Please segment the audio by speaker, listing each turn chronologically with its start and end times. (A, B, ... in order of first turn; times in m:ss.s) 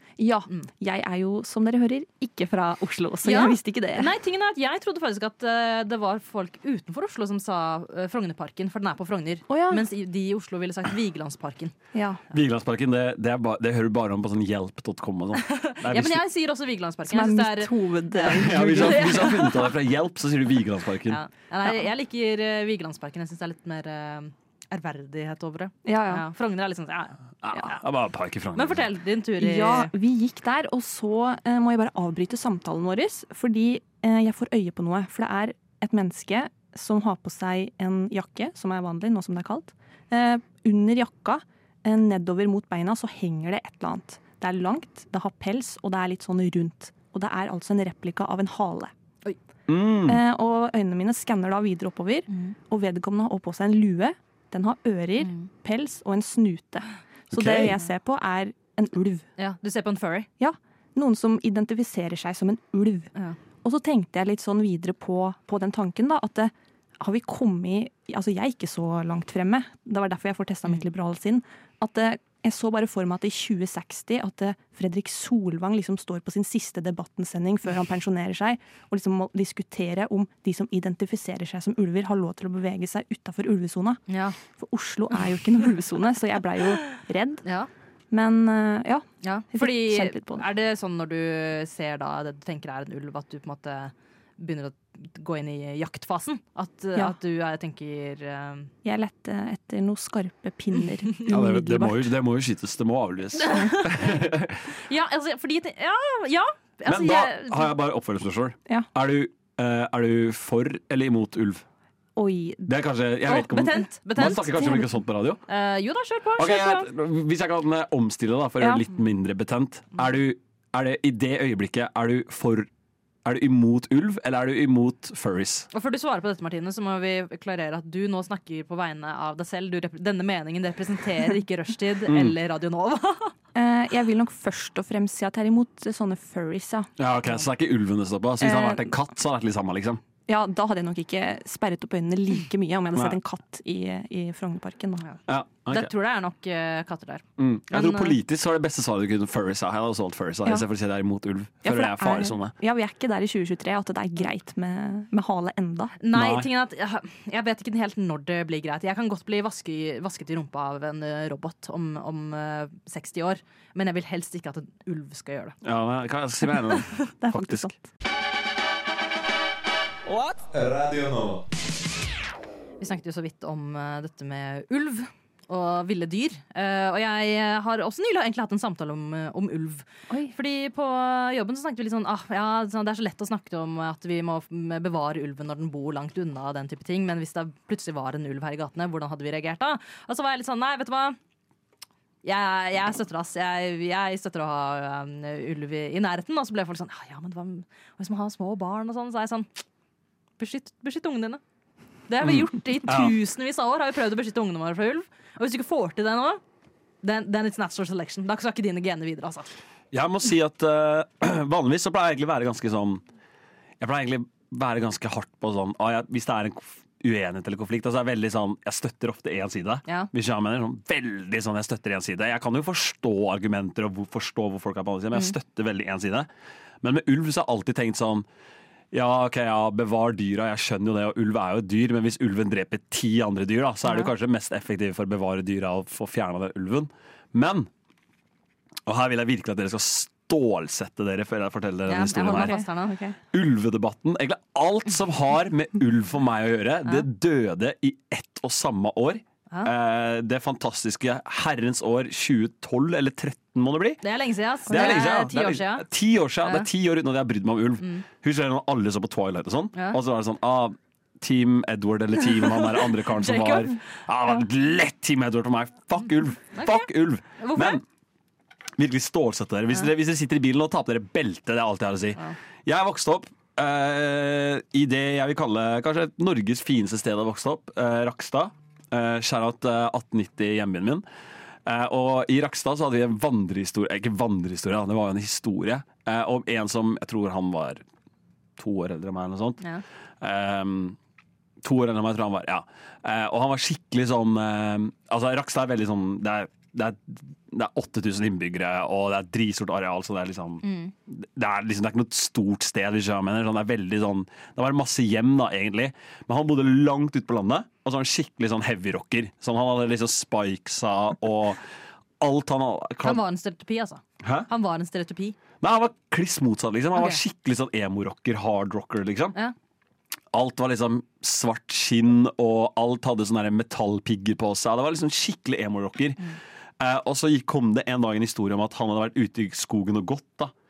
0:00.2-0:04.1 A
0:03.2-0:11.7 B
0:09.5-0:09.8 A
0:11.9-0:12.2 A
0:12.3-0:16.2 C
0:15.4-0:19.7 B
0:17.1-0:19.5 A
0:18.3-0:21.2 C
0:21.1-0:27.2 B
0:25.8-0:26.3 A
0:27.4-0:28.9 C
0:28.6-0:29.9 B
0:29.4-0:48.9 A
0:49.7-0:50.2 C
0:50.1-0:59.3 A
0:57.3-0:57.8 C
0:59.4-1:00.3 B
1:00.4-1:03.1 A
1:03.6-1:27.4 A
1:24.1-1:24.4 B
1:28.1-1:30.4 A
1:29.2-1:38.7 B
1:38.8-1:42.1 A
1:41.3-1:44.7 C
1:43.4-1:44.2 B
1:44.8-1:47.7 B
1:46.9-1:51.6 C
1:52.2-1:52.7 A
1:52.7-1:55.4 C
1:53.3-1:54.7 B
1:54.2-1:54.8 A
1:55.5-1:56.9 B
1:56.4-2:02.7 C
2:03.2-2:05.7 C
2:05.7-2:13.3 B
2:12.1-2:12.4 C
2:13.6-2:16.9 A
2:17.0-2:20.0 C
2:18.4-2:18.9 A
2:20.3-2:25.1 A
2:25.3-2:25.9 C
2:25.7-2:28.2 B
2:27.4-2:32.5 C
2:31.6-2:36.0 A
2:36.0-2:45.6 B
2:36.1-2:36.5 C
2:45.6-2:47.7 C
2:47.2-2:47.8 A
2:50.1-2:51.4 C
2:52.8-3:11.2 B
3:00.1-3:00.3 A
3:12.2-3:19.6 B
3:20.4-3:21.4 B
3:22.1-3:26.4 B
3:22.2-3:23.2 C
3:27.0-3:29.5 B
3:29.9-3:33.0 C
3:33.8-3:46.3 C
3:46.8-3:48.3 C
3:48.9-3:57.7 C
3:58.9-4:02.6 C
4:01.9-4:03.0 B
4:02.5-4:03.2 A
4:03.3-4:14.0 C
4:14.0-4:15.9 B
4:14.7-4:27.8 C
4:16.4-4:16.7 B
4:22.4-4:23.8 B
4:26.5-4:27.8 B
4:28.8-4:41.0 C
4:41.7-4:47.8 C
4:48.6-4:49.6 C
4:50.2-4:51.0 C
4:51.6-5:11.6 C
5:00.6-5:00.9 B
5:12.2-5:13.2 C
5:13.0-5:15.4 B
5:14.2-5:14.5 C
5:15.6-5:19.4 C
5:17.0-5:17.2 B
5:20.3-5:30.5 C